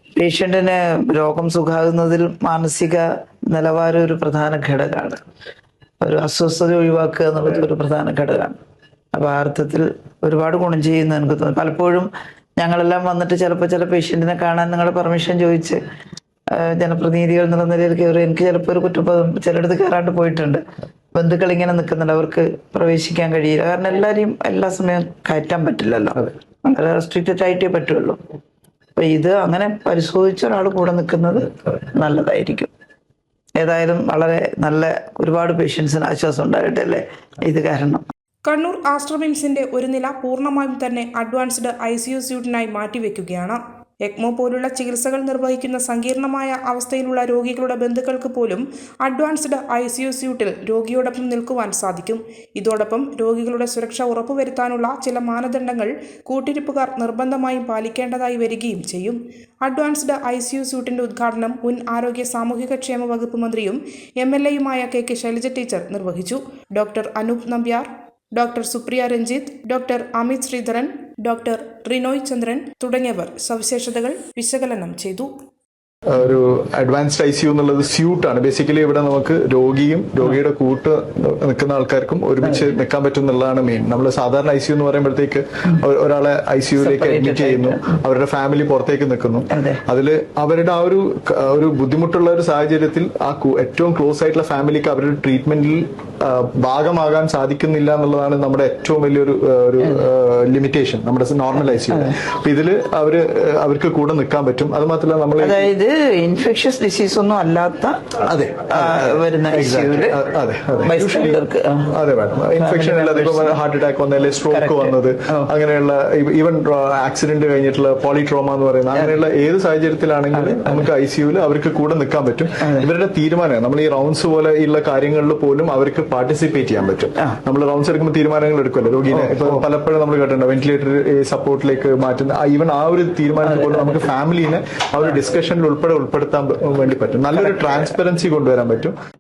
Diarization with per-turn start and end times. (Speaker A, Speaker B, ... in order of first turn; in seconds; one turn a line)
Speaker A: 0.2-5.2
Speaker A: 6.0-8.6
Speaker A: 9.1-15.8
Speaker A: 16.5-20.6
Speaker A: 21.1-28.2
Speaker A: 28.9-32.7
Speaker A: 33.6-38.0
Speaker B: 38.5-75.3
Speaker C: 76.1-105.7
Speaker A: 86.8-87.9
Speaker A: 89.5-89.8
Speaker A: 101.5-102.2
Speaker A: 105.4-110.2
Speaker C: 108.2-138.9
Speaker A: 110.8-111.9
Speaker A: 112.5-113.6
Speaker A: 114.5-115.5
Speaker A: 120.3-120.8
Speaker A: 122.6-122.9
Speaker A: 129.1-129.6
Speaker A: 133.7-134.0